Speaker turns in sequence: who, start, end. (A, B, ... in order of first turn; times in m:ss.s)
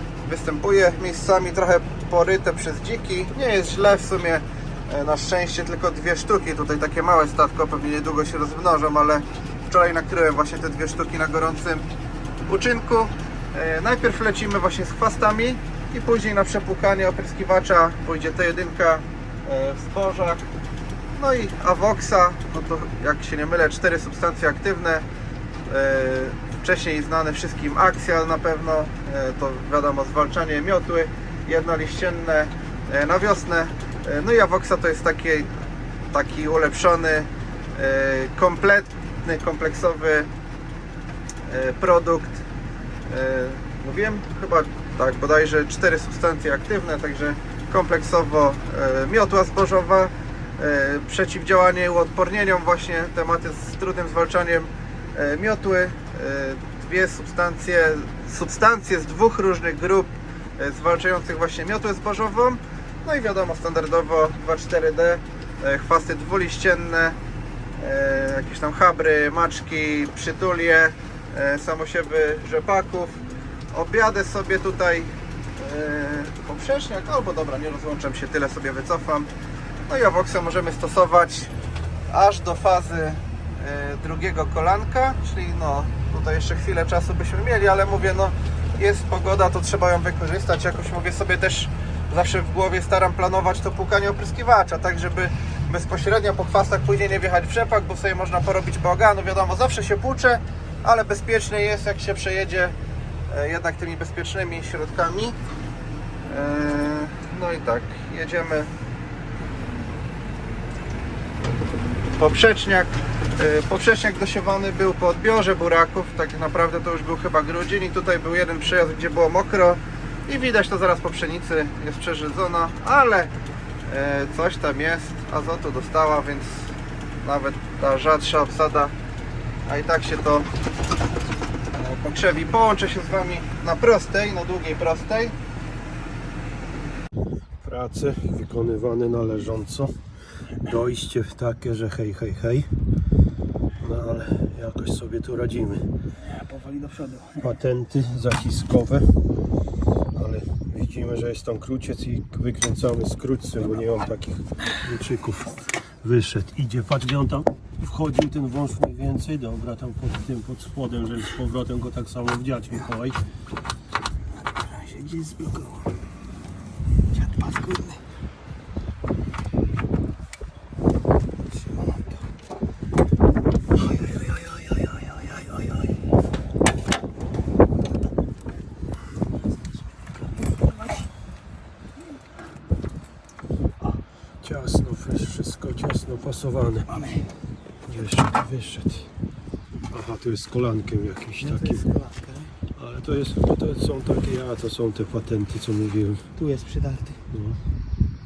0:00.2-0:11.8 A
0:12.5-0:20.4 A
0:21.1-0:25.0 A
0:25.7-0:35.5 A
0:36.1-0:40.3 A
0:41.4-0:42.4 A
0:43.0-1:07.2 A
1:07.8-1:13.2 A
1:13.7-1:19.3 A
1:19.9-1:21.5 A
1:22.1-1:42.7 A
1:43.3-1:45.4 A
1:46.3-1:48.7 A
1:52.2-2:03.3 A
2:03.8-2:08.9 A
2:09.7-2:10.5 A
2:11.7-2:15.3 A
2:17.6-2:19.9 B
2:20.6-2:22.7 B
2:23.8-2:25.8 B
2:26.3-2:27.4 C
2:27.4-2:29.1 B
2:30.1-2:43.2 B
2:44.6-2:45.9 C
2:47.1-2:48.0 C
2:53.8-2:55.6 C
3:04.4-3:07.0 B
3:06.9-3:07.2 C
3:07.8-3:09.1 B
3:09.9-3:11.9 B
3:11.4-3:12.5 C
3:12.8-3:16.3 B
3:16.4-3:17.2 C
3:17.3-3:17.6 B